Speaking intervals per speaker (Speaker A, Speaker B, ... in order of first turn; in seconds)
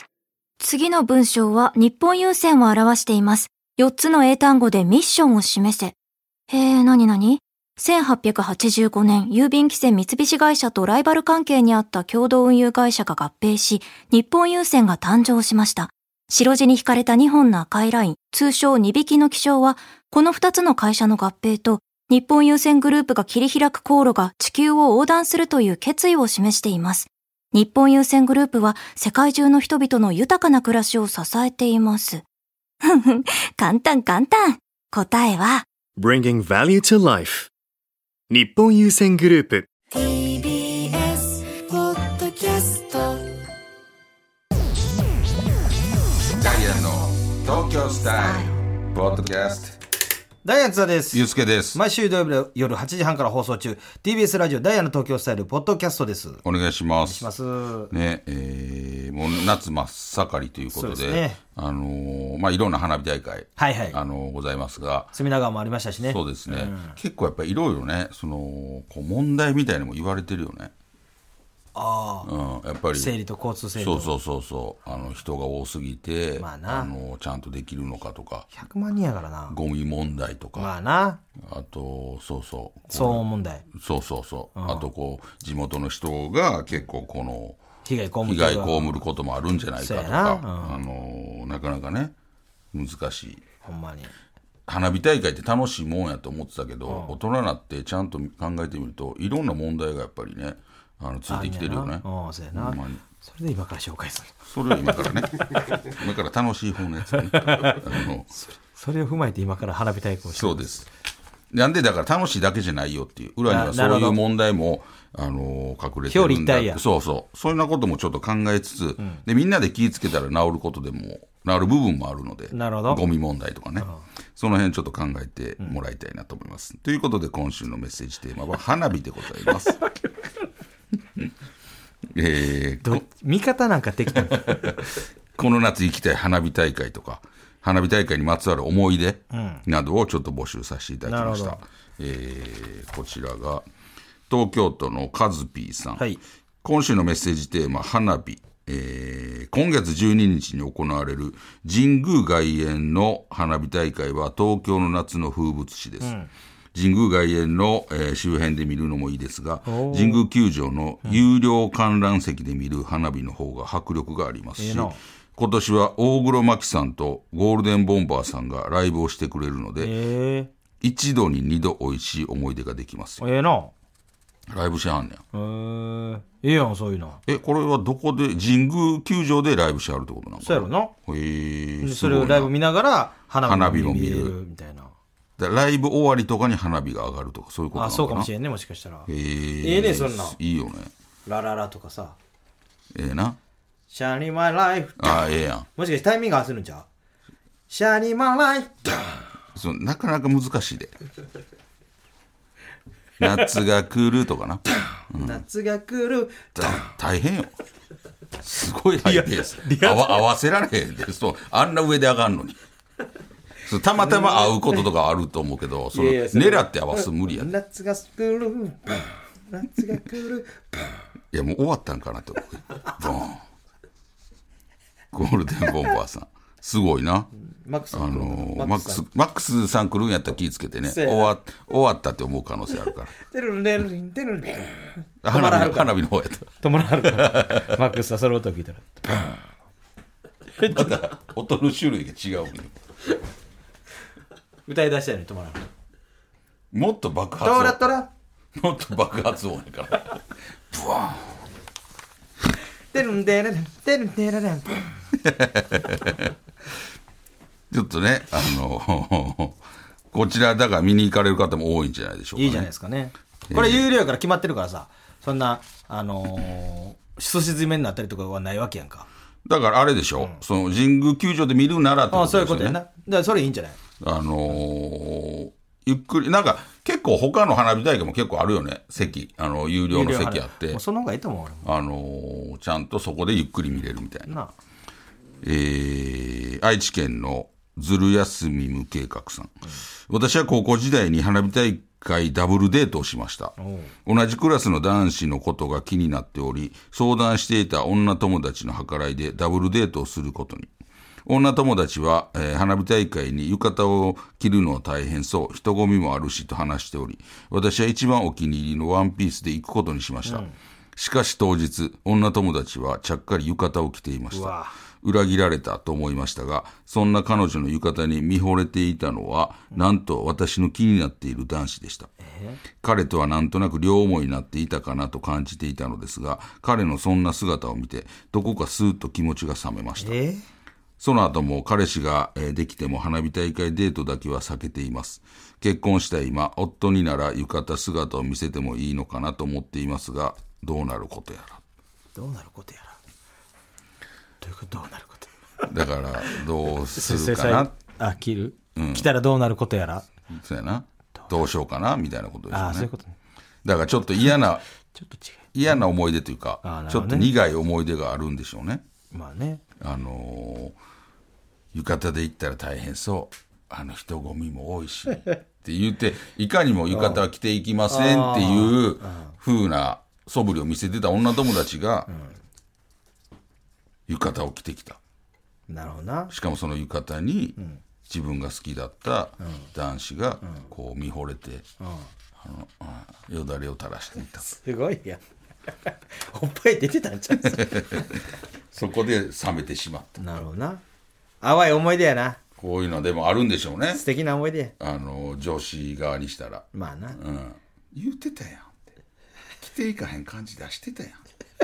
Speaker A: 0.6-6.0, 6.5-32.2, 32.8-35.7
Speaker B: 36.0-37.5, 38.3-39.7
Speaker C: 39.9-43.2
Speaker D: 46.3-49.8, 51.1-51.8, 56.4-57.3, 57.9-65.1, 66.1-70.7, 72.2-73.1, 73.8-78.5, 79.5-80.7, 81.4-87.6, 88.2-92.1, 92.7-93.4, 94.7-103.0, 104.5-108.3, 110.3-110.9, 111.5-129.8, 132.1-133.0, 134.1-143.7, 144.3-146.1, 146.6-156.1, 156.7-169.9, 170.8-173.2, 174.5-175.2, 177.3-182.5, 183.4-184.4, 185.4-188.3, 189.1-190.9, 192.9-193.4, 195.0-195.7, 199.5-200.9, 203.2-205.4, 206.6-207.6, 208.4-212.6, 213.7-217.5, 221.3-223.4, 225.1-227.3, 227.9-233.1, 235.2-237.8, 240.6-242.8, 246.7-247.9, 248.6-251.4, 255.2-256.3, 257.7-259.6, 260.1-262.7, 263.5-263.9, 269.4-272.8, 274.0-280.8, 281.6-284.3, 285.4-300.7, 301.2-322.1, 322.8-330.2, 331.0-341.6, 345.7-347.7, 348.8-349.1, 350.3-352.9, 353.6-354.6, 355.5-358.8, 359.8-360.8, 361.7-372.1, 374.1-375.0, 376.3-377.6, 378.1-381.6, 382.4-384.5, 387.4-390.2, 392.6-394.0, 394.8-398.7, 399.6-401.2
Speaker E: 50.4-56.4, 57.0-57.9, 60.7-61.4, 63.6-64.0, 65.1-67.0, 71.8-72.3, 72.9-74.1, 76.4-76.9, 78.5-79.6, 80.5-81.2, 82.9-83.6, 84.5-84.9, 87.8-89.0, 89.8-90.8, 93.6-94.1, 96.9-97.2, 101.3-104.4, 107.3-107.8, 108.3-110.8, 113.5-114.2, 116.1-116.8, 122.5-123.0, 132.8-134.9, 139.3-139.7, 141.1-141.6, 156.0-156.3, 159.7-160.2, 164.6-165.0, 169.8-170.5, 173.2-173.7, 175.3-177.2, 180.4-180.9, 181.8-184.9, 187.7-189.1, 189.6-190.4, 191.3-192.2, 193.9-195.2, 195.8-196.9, 197.7-198.9, 205.1-206.9, 209.0-210.3, 214.0-214.8, 215.9-220.9, 227.6-229.0, 230.8-231.3, 233.2-235.9, 236.6-239.3, 240.6-240.9, 244.7-245.7, 247.4-248.1, 252.9-254.9, 262.4-269.1, 272.1-273.8, 279.9-281.7, 284.2-284.5, 293.6-293.9, 310.2-310.5, 314.3-314.7, 322.2-322.6, 330.0-330.4, 342.1-343.0, 344.4-345.7, 346.9-350.1, 352.5-353.1, 354.9-355.4, 356.6-357.3, 359.1-359.6, 366.9-367.2, 367.9-369.3, 372.1-372.4, 375.7-376.3, 381.8-382.1, 384.4-385.2, 385.9-388.1, 390.2-390.8, 391.4-392.4, 393.9-394.7, 396.7-397.2